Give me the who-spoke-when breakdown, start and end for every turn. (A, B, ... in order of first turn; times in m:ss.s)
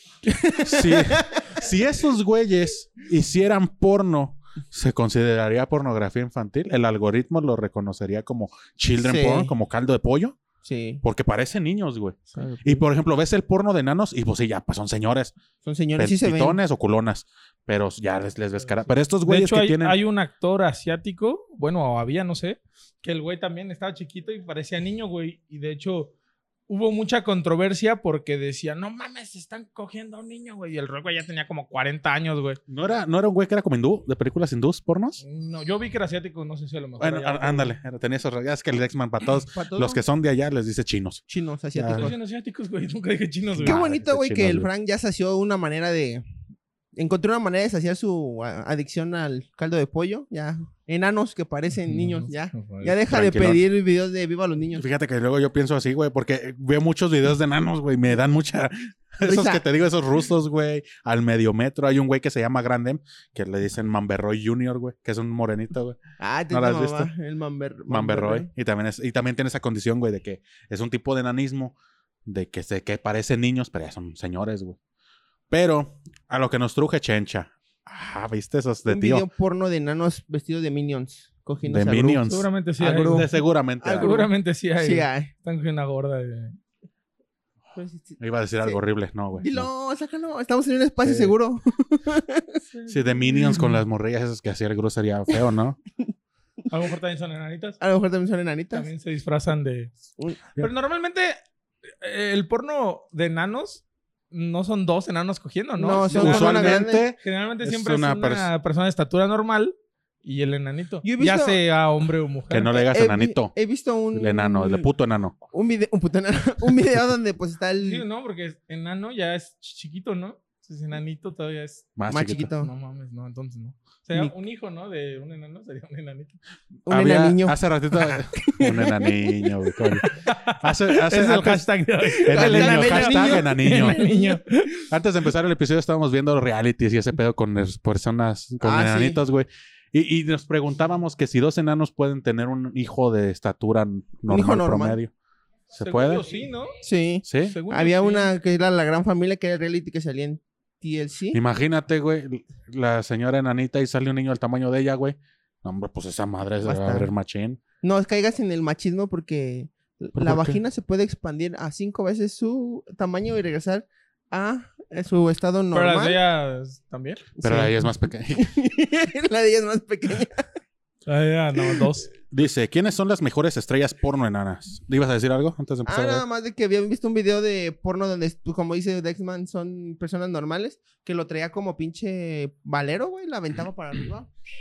0:00.3-0:01.4 A
0:00.6-0:10.4 B
0:09.0-0:09.5 A
0:10.6-0:11.0 A
0:11.0-0:15.3 B
0:12.4-0:12.8 C
0:15.6-0:16.6 A
0:16.0-0:20.0 B
0:19.2-0:26.1 C
0:26.7-0:32.6 C
0:32.7-0:35.2 B
0:35.2-0:37.7 C
0:37.0-0:41.2 B
0:39.5-0:40.0 A
0:41.3-0:42.2 A
0:41.8-0:42.1 B
0:41.9-0:43.8 C
0:43.5-0:44.7 B
0:43.6-0:46.2 A
0:47.0-0:54.8 A
0:51.9-0:53.0 C
0:53.1-0:53.7 B
0:54.8-1:06.0 B
0:59.2-0:59.6 A
1:06.2-1:08.5 A
1:06.5-1:07.1 B
1:07.9-1:11.8 B
1:12.3-1:14.8 B
1:15.5-1:19.3 B
1:18.9-1:22.2 A
1:21.7-1:24.2 B
1:22.2-1:23.4 C
1:22.8-1:23.3 A
1:23.8-1:25.3 A
1:24.0-1:26.6 C
1:27.8-1:28.8 A
1:28.2-1:29.7 B
1:29.4-1:32.6 A
1:31.0-1:31.3 B
1:32.8-1:33.7 C
1:32.9-1:35.8 B
1:36.7-1:37.8 C
1:37.8-1:38.9 A
1:38.7-1:39.9 C
1:40.6-1:41.4 C
1:42.0-1:52.7 C
1:45.8-1:47.1 A
1:46.1-1:48.5 B
1:51.0-1:51.6 A
1:52.5-1:53.5 B
1:52.7-1:54.9 A
1:54.1-1:55.4 B
1:55.5-1:58.0 A
1:57.8-2:06.4 C
2:02.0-2:02.5 B
2:02.1-2:02.7 A
2:06.9-2:09.5 A
2:06.9-2:14.0 B
2:10.2-2:14.8 C
2:12.1-2:14.4 A
2:14.9-2:25.1 B
2:18.6-2:19.2 A
2:24.3-2:25.0 A
2:25.7-2:26.3 B
2:25.8-2:26.8 C
2:26.8-2:31.4 A
2:27.3-2:27.6 B
2:27.4-2:28.3 C
2:31.3-2:37.6 B
2:36.6-2:37.1 A
2:37.8-2:46.2 A
2:40.2-2:40.6 B
2:45.7-2:47.3 C
2:47.4-2:50.5 A
2:47.4-2:48.5 B
2:51.1-2:52.1 C
2:52.2-2:56.2 B
2:55.9-3:04.3 A